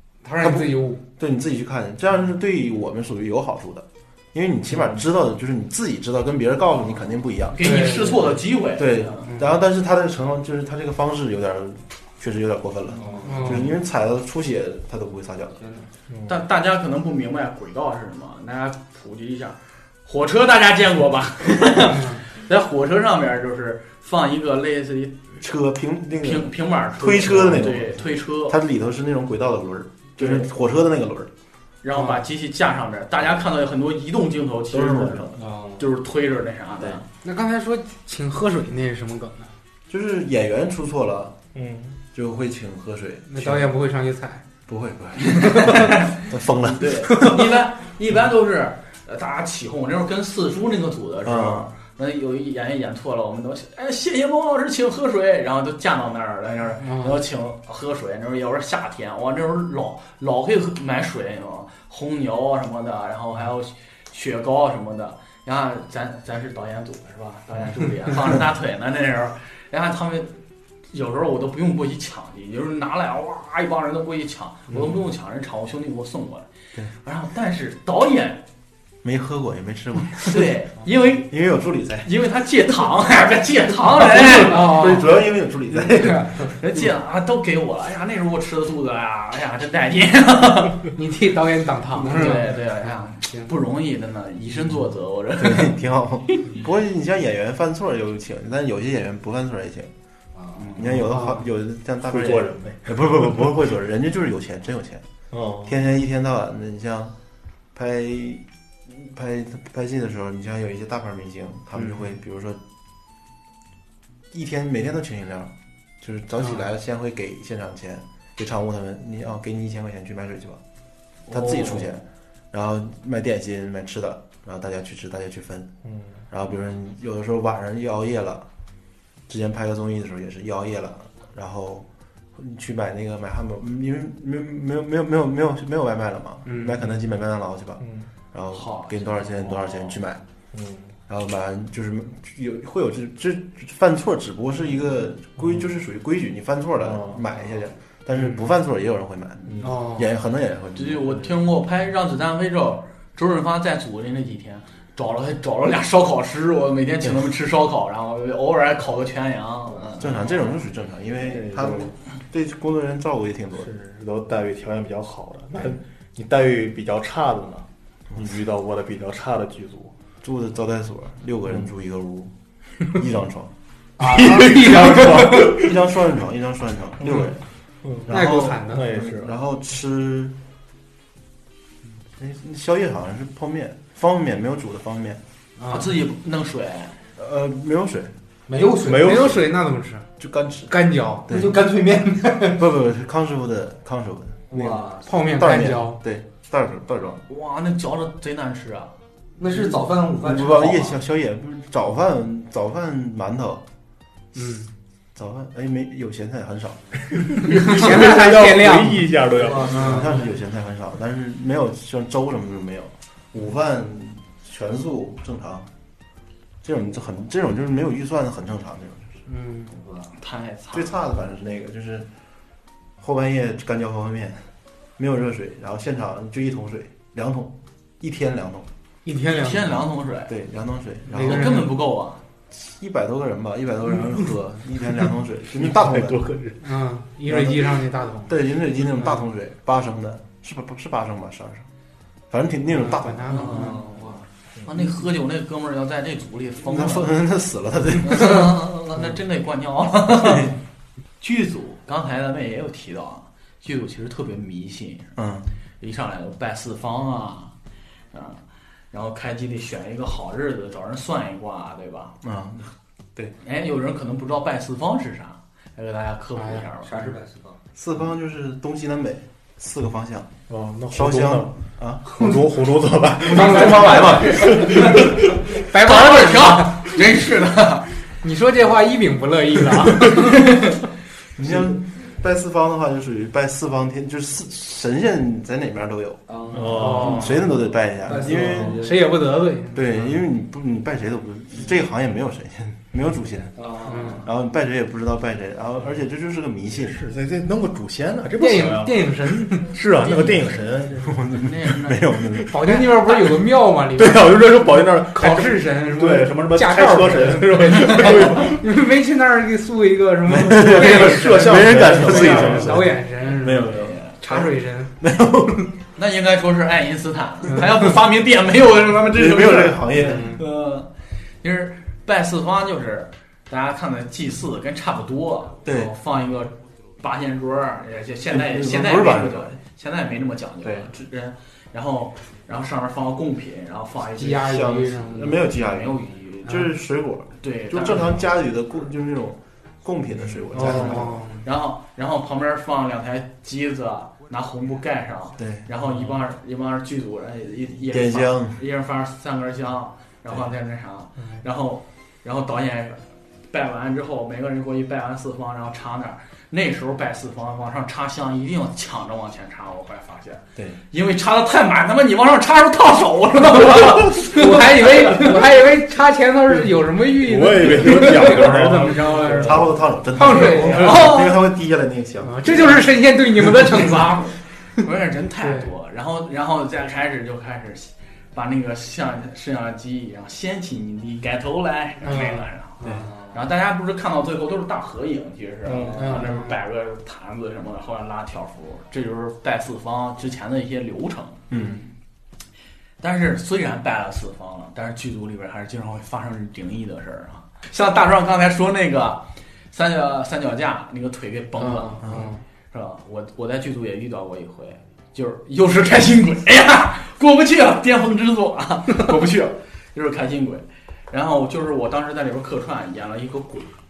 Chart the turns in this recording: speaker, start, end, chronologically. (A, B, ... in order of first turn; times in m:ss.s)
0:00.2-0:01.0 A
0:00.4-0:08.2 B
0:07.5-0:09.3 C
0:07.6-0:08.3 A
0:08.7-0:15.6 B
0:09.2-0:09.6 A
0:12.9-0:13.7 D
0:13.2-0:13.7 A
0:15.6-0:15.9 D
0:16.1-0:16.4 E
0:16.3-0:25.4 C
0:21.9-0:22.2 A
0:25.4-0:31.3 B
0:26.2-0:28.6 C
0:30.2-0:30.5 C
0:31.8-0:37.0 C
0:31.9-0:32.2 A
0:34.7-0:35.4 B
0:35.4-0:35.9 D
0:37.2-0:39.5 A
0:39.9-0:41.4 B
0:41.5-0:42.0 E
0:42.1-0:43.7 B
0:43.3-0:44.4 A
0:44.7-0:47.4 B
0:45.2-1:10.3 C
0:51.2-0:51.7 B
0:56.8-0:57.2 A
1:10.9-1:16.5 C
1:17.0-1:18.4 C
1:19.0-1:20.6 B
1:20.2-1:21.3 C
1:21.3-1:22.1 B
1:22.0-1:24.9 C
1:24.0-1:26.6 B
1:24.4-1:25.1 A
1:26.0-1:30.9 C
1:30.9-1:33.5 A
1:32.0-1:35.8 C
1:35.4-1:39.9 B
1:40.3-1:40.8 D
1:40.6-1:40.9 C
1:40.8-1:45.0 B
1:40.9-1:41.4 A
1:42.1-1:43.5 E
1:45.3-1:45.8 E
1:45.6-1:47.1 B
1:47.7-1:52.6 B
1:54.3-2:00.6 B
1:56.4-1:56.6 A
2:01.3-2:02.0 C
2:01.3-2:05.7 B
2:05.8-2:06.1 E
2:06.3-2:08.5 B
2:09.3-2:20.2 B
2:16.4-2:16.8 A
2:17.8-2:18.1 E
2:18.5-2:20.0 C
2:20.5-2:20.9 E
2:21.1-2:31.3 B
2:26.8-2:27.2 E
2:29.4-2:29.8 E
2:29.6-2:30.1 A
2:30.7-2:40.4 C
2:39.7-2:40.0 D
2:40.0-2:43.7 B
2:41.3-2:41.9 E
2:43.6-2:49.9 E
2:50.2-2:52.3 B
2:52.9-2:53.5 B
2:54.0-2:55.7 E
2:54.0-2:55.5 A
2:54.2-2:57.4 B
2:57.0-2:57.3 E
2:57.8-2:59.4 E
2:58.0-3:00.4 B
2:58.1-2:58.8 A
3:02.2-3:05.2 B
3:05.6-3:05.9 A
3:05.7-3:07.0 C
3:07.2-3:08.1 B
3:08.5-3:09.4 D
3:08.8-3:09.4 E
3:08.9-3:10.1 A
3:10.2-3:11.7 B
3:10.7-3:11.3 A
3:11.3-3:12.6 D
3:12.5-3:17.2 B
3:14.5-3:15.1 D
3:15.0-3:16.0 A
3:17.3-3:18.9 C
3:19.4-3:21.0 D
3:20.2-3:23.6 B
3:24.3-3:24.7 A
3:25.1-3:26.8 B
3:27.1-3:29.8 E
3:27.5-3:29.1 A
3:29.3-3:30.2 D
3:29.7-3:30.1 A
3:29.8-3:35.7 B
3:36.6-3:39.2 B
3:39.3-3:39.7 A
3:39.8-3:40.1 D
3:40.1-3:40.9 C
3:40.7-3:42.1 B
3:43.0-3:44.4 B
3:45.0-3:48.7 B
3:49.0-3:49.8 A
3:49.3-3:50.3 C
3:50.3-3:51.7 B
3:51.1-3:52.2 C
3:51.1-3:51.7 A
3:52.5-3:56.2 B
3:55.6-3:56.6 E
3:56.6-3:58.4 A
3:57.3-4:01.7 B
4:02.3-4:03.7 B
4:02.7-4:03.8 A
4:03.3-4:03.9 C
4:03.4-4:04.2 D
4:04.6-4:07.2 C
4:06.6-4:08.6 B
4:08.0-4:10.6 C
4:10.1-4:10.5 B
4:11.2-4:15.1 C
4:15.2-4:15.5 B
4:15.8-4:17.5 C
4:18.1-4:18.4 C
4:18.9-4:22.2 C
4:22.2-4:23.3 B
4:23.4-4:27.1 C
4:26.4-4:26.6 A
4:26.8-4:27.6 D
4:27.7-4:30.3 B
4:30.5-4:35.4 E
4:30.9-4:32.4 B
4:33.2-4:35.0 B
4:33.3-4:34.0 A
4:33.4-4:35.0 D
4:33.4-4:34.7 C
4:35.5-4:37.0 A
4:35.6-4:38.0 C
4:38.2-4:40.6 A
4:41.4-4:48.8 B
4:46.3-4:49.2 D
4:46.5-4:47.4 E
4:46.7-4:47.5 A
4:48.2-4:48.7 E
4:48.7-4:50.1 A
4:49.7-4:53.6 B
4:53.6-4:54.3 D
4:53.8-4:54.2 A
4:54.2-4:57.0 B
4:56.8-5:01.3 E
4:58.4-4:59.7 A
5:00.0-5:02.1 C
5:01.0-5:02.7 B
5:02.5-5:14.9 A
5:03.9-5:08.6 E
5:10.2-5:15.8 B
5:10.6-5:12.9 E
5:13.5-5:14.2 C
5:15.9-5:34.8 C
5:19.0-5:20.4 B
5:20.0-5:20.4 A
5:25.6-5:25.9 B
5:28.3-5:29.6 B
5:30.6-5:30.9 B
5:34.1-5:35.5 A
5:34.3-5:41.2 B
5:35.4-5:36.7 C
5:37.4-5:38.3 C
5:40.5-5:41.4 A
5:40.5-6:05.2 C
5:45.4-5:45.7 B
5:47.9-5:48.6 B
6:04.1-6:11.2 A
6:06.5-6:09.6 E
6:09.2-6:12.9 B
6:10.2-6:11.4 C
6:12.2-6:14.8 A
6:14.8-6:31.6 C
6:15.4-6:15.7 A
6:22.0-6:23.0 A
6:22.8-6:23.4 D
6:25.7-6:26.0 E
6:25.7-6:26.3 D
6:25.9-6:26.6 A
6:31.5-6:31.8 B
6:33.0-6:53.8 C
6:41.6-6:42.4 A
6:42.0-6:42.3 B